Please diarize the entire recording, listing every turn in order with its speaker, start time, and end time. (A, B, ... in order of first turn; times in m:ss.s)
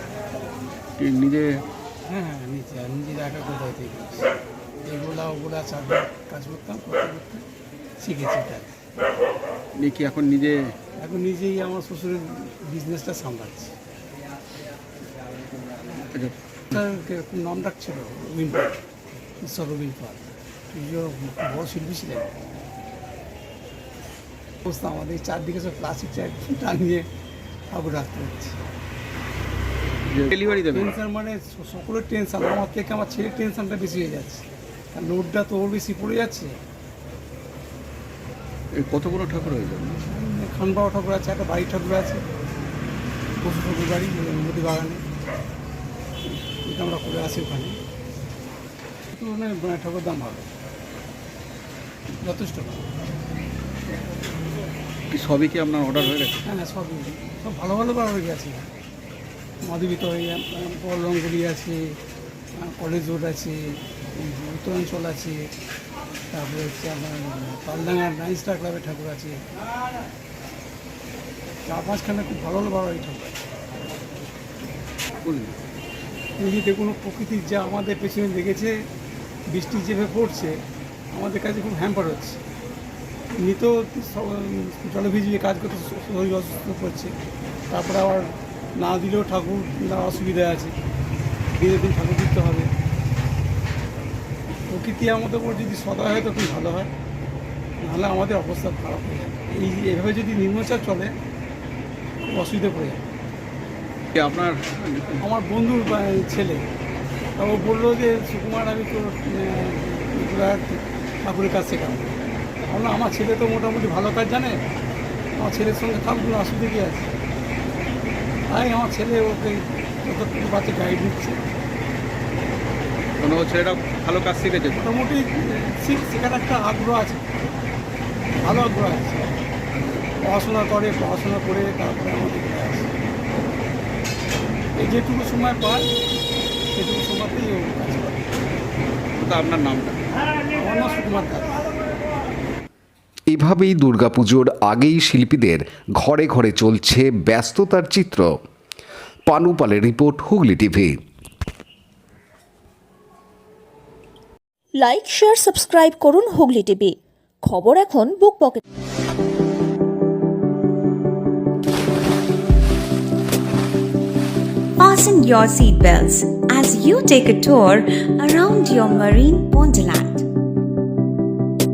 0:01.0-0:01.6 A
0:02.1-0:04.3 B
0:04.9-0:07.4 B
0:08.0-0:08.7 B
0:09.8-0:10.7 A
0:11.0-0:13.8 B
0:16.1-0:16.8 A
0:16.7-0:18.8 B
0:19.4-0:22.3 B
0:24.6-0:27.0 B
0:27.7-0:28.6 B
0:30.1-0:30.9 A
0:30.7-0:36.5 B
0:38.8-0:39.9 A
0:40.0-0:42.2 B
0:43.4-0:45.0 B
0:46.6-0:47.8 B
0:49.1-0:50.5 B
0:52.2-0:52.8 B
0:55.1-0:56.4 A
0:56.5-0:58.7 B
0:59.6-1:01.9 B
1:02.6-1:05.4 B
1:06.3-1:09.4 B
1:11.7-1:13.4 B
1:15.2-1:15.6 A
1:16.4-1:18.7 B
1:19.5-1:20.6 B
1:21.1-1:22.4 B
1:23.4-1:27.1 B
1:27.7-1:28.3 B
1:28.8-1:30.8 B
1:31.6-1:32.7 B
1:34.7-1:36.9 B
1:37.8-1:41.1 B
1:42.3-1:43.0 B
1:44.2-1:45.2 A
1:45.2-1:46.6 B
1:47.4-1:52.2 B
1:52.7-1:54.6 B
1:55.4-1:57.1 B
1:58.5-2:01.4 B
2:03.2-2:04.9 A
2:04.8-2:07.2 B
2:08.4-2:09.3 B
2:09.7-2:10.1 A
2:10.2-2:12.9 B
2:14.8-2:15.9 B
2:16.7-2:18.4 B
2:19.2-2:20.0 A
2:20.5-2:21.6 B
2:23.3-2:28.3 C
2:29.3-2:30.9 C
2:34.8-2:38.6 D
2:44.8-2:50.2 E